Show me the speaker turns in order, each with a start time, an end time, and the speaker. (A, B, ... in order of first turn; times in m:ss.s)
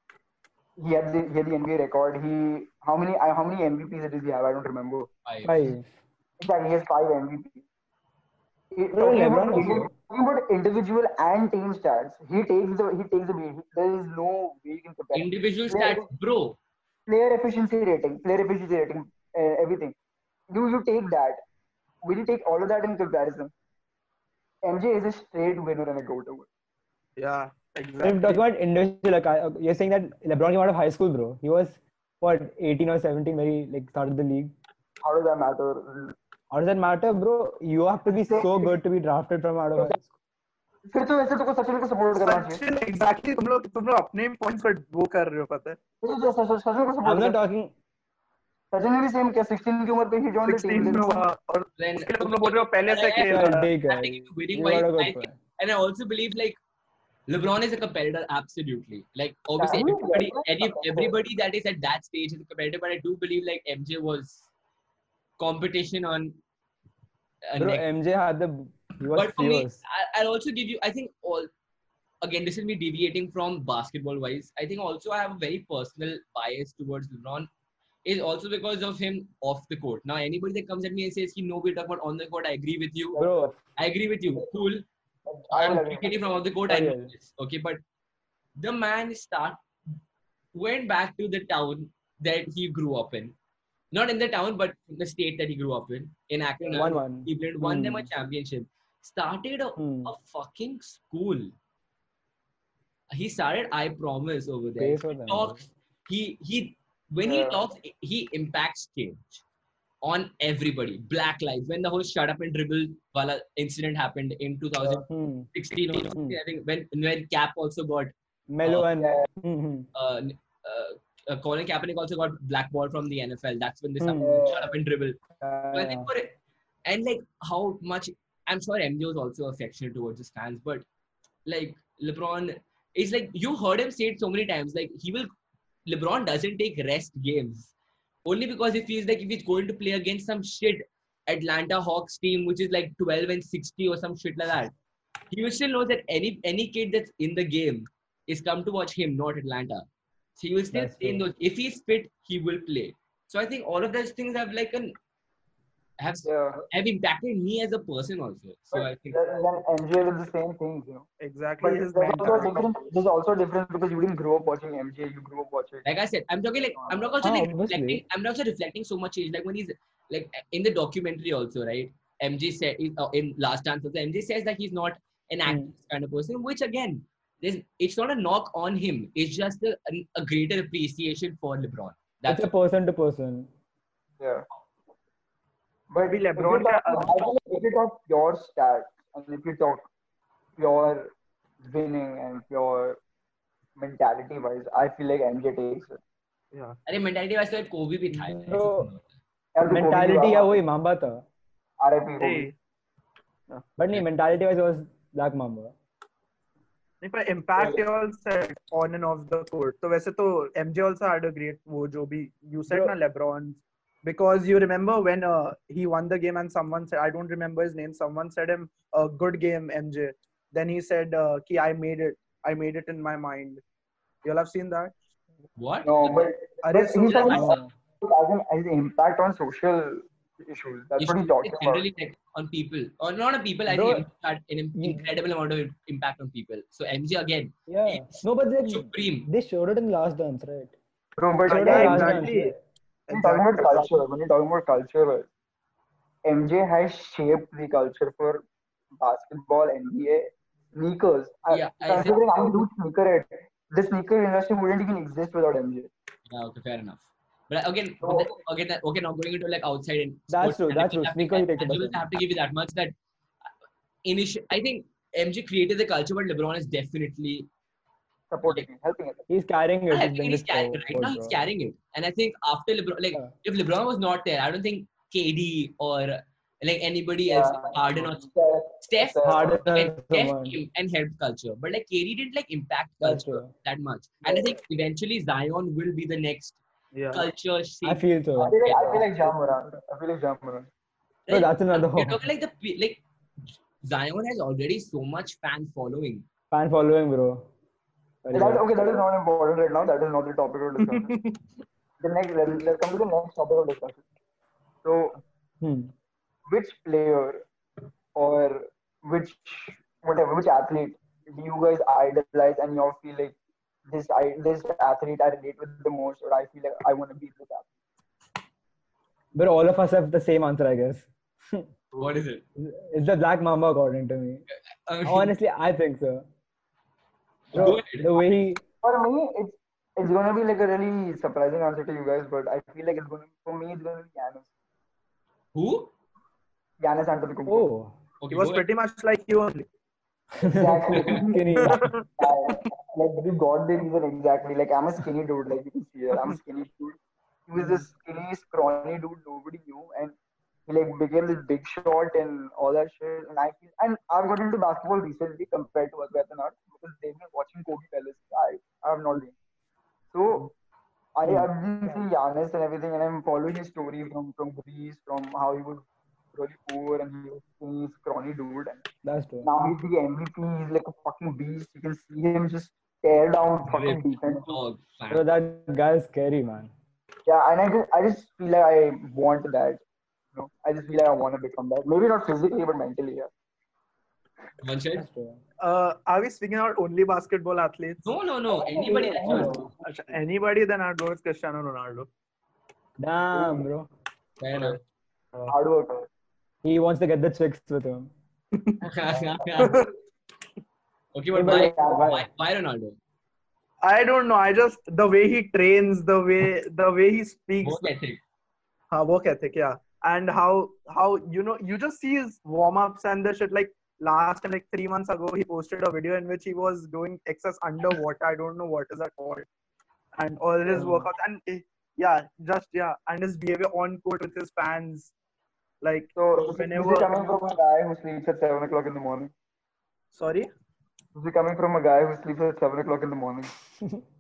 0:00.8-0:05.1 A
0:05.3-0:05.6 B
0:05.4-0:05.8 C
0:06.4-0:07.6 A
0:08.8-0:16.1 A
0:08.9-0:09.9 C
0:15.2-0:16.6 B
0:17.1-0:20.0 A
0:20.5-0:21.4 A
0:22.0-0:23.5 A
0:24.6-0:26.5 A
0:27.2-0:28.4 D
0:28.0-0:34.5 C
0:35.0-0:36.2 A
0:36.5-0:40.1 C
0:38.1-0:38.7 A
0:40.9-0:42.6 A
0:42.2-0:45.8 D
0:46.0-0:47.4 A
0:47.0-0:47.7 C
0:48.7-0:51.2 A
0:50.5-0:53.7 D
0:51.8-0:56.6 B
0:53.2-0:55.4 C
0:57.3-1:04.5 B
0:59.6-1:01.2 A
1:05.4-1:06.4 B
1:07.5-1:07.8 B
1:07.6-1:09.8 C
1:09.2-1:11.5 B
1:12.2-1:17.5 B
1:18.0-1:23.2 B
1:23.1-1:23.5 A
1:23.2-1:23.6 C
1:23.8-1:24.8 B
1:25.3-1:26.4 A
1:25.5-1:27.8 B
1:26.7-1:27.1 C
1:28.6-1:29.6 B
1:30.5-1:33.4 B
1:33.9-1:41.5 B
1:36.7-1:38.1 C
1:39.8-1:40.1 C
1:43.1-1:49.4 B
1:44.6-1:45.6 C
1:47.2-1:47.6 A
1:50.0-1:58.1 B
1:55.1-1:55.5 C
1:56.1-1:56.4 C
1:58.5-1:59.9 C
1:58.6-1:58.9 B
1:59.0-1:59.2 A
2:00.0-2:05.2 B
2:04.0-2:04.4 C
2:04.2-2:04.7 A
2:05.4-2:06.1 C
2:05.7-2:06.3 B
2:06.9-2:10.9 B
2:11.5-2:15.3 B
2:15.9-2:17.7 B
2:18.2-2:24.7 B
2:25.3-2:29.8 B
2:30.4-2:35.0 B
2:30.7-2:31.3 C
2:36.0-2:39.2 B
2:36.3-2:36.7 A
2:38.7-2:41.0 A
2:41.2-2:42.7 D
2:41.6-2:45.9 A
2:45.8-3:02.5 B
2:46.8-2:47.1 A
2:47.2-2:48.0 C
3:02.3-3:03.5 C
3:04.2-3:04.5 A
3:05.9-3:09.9 A
3:06.0-3:07.3 D
3:10.6-3:11.1 A
3:11.6-3:13.0 A
3:13.8-3:16.0 A
3:16.9-3:19.1 B
3:18.1-3:18.9 C
3:19.6-3:20.6 A
3:19.7-3:21.2 C
3:21.8-3:22.5 A
3:22.2-3:22.5 D
3:23.8-3:25.7 C
3:27.0-3:43.6 D
3:32.7-3:32.9 C
3:44.2-3:44.9 D
3:45.6-3:46.3 B
3:45.8-3:51.8 A
3:46.6-3:47.5 D
3:47.1-3:47.6 B
3:47.3-3:47.7 C
3:51.0-3:59.3 B
3:53.7-3:54.1 C
3:54.8-3:55.1 C
3:57.7-4:00.8 C
4:01.2-4:02.3 A
4:01.5-4:02.6 D
4:01.5-4:02.6 C
4:03.1-4:04.0 D
4:03.1-4:05.3 A
4:06.2-4:08.4 A
4:09.0-4:15.9 A
4:11.5-4:12.5 B
4:16.3-4:22.9 B
4:18.0-4:18.3 A
4:20.3-4:22.0 C
4:24.1-4:27.5 B
4:28.3-4:29.2 A
4:29.3-4:31.4 C
4:29.9-4:38.3 B
4:37.3-4:39.6 A
4:38.8-4:46.6 B
4:39.2-4:40.6 C
4:43.0-4:43.5 C
4:46.9-4:47.3 D
4:47.1-4:49.1 B
4:47.8-4:48.6 C
4:48.4-4:50.7 A
4:51.3-4:53.0 B
4:51.3-4:52.2 C
4:53.8-4:56.2 B
4:56.5-4:57.5 C
4:58.2-4:58.6 C
4:58.3-5:01.1 A
5:00.8-5:01.4 D
5:02.0-5:04.0 A
5:04.8-5:05.2 A
5:05.6-5:05.9 C
5:06.5-5:07.4 A
5:08.2-5:13.4 A
5:13.9-5:17.7 A
5:19.4-5:21.7 C
5:22.0-5:22.4 B
5:22.6-5:24.4 C
5:24.9-5:25.3 B
5:25.0-5:26.3 C
5:27.5-5:28.6 C
5:27.6-5:28.3 B
5:28.8-5:34.5 A
5:35.5-5:35.9 B
5:36.8-5:37.7 A
5:37.5-5:37.9 C
5:38.2-5:38.7 B
5:38.3-5:39.7 D
5:40.4-5:41.8 C
5:40.4-5:47.0 A
5:40.9-5:41.3 B
5:41.6-5:42.6 D
5:47.5-5:50.2 A
5:50.7-5:59.4 A
6:00.1-6:00.5 A
6:01.2-6:08.8 A
6:09.0-6:09.5 C
6:09.4-6:14.6 A
6:13.7-6:15.3 B
6:15.1-6:16.7 C
6:17.3-6:19.8 A
6:20.4-6:23.3 A
6:24.6-6:25.1 B
6:25.0-6:25.4 C
6:25.6-6:28.0 D
6:28.0-6:29.6 B
6:28.5-6:29.7 A
6:29.2-6:29.6 C
6:29.3-6:32.1 D
6:33.0-6:33.9 C
6:33.3-6:33.6 A
6:34.4-6:34.8 B
6:35.5-6:36.1 A
6:36.6-6:38.1 C
6:38.6-6:38.8 D
6:38.8-6:39.8 B
6:39.6-6:39.9 D
6:41.2-6:43.0 B
6:41.3-6:42.3 C
6:41.4-6:42.1 A
6:43.8-6:47.9 D
6:47.6-6:48.2 B
6:48.9-6:59.5 D
7:00.2-7:05.1 D
7:00.7-7:01.1 C
7:05.8-7:07.5 D
7:06.2-7:09.3 A
7:10.1-7:10.5 D
7:11.2-7:13.5 A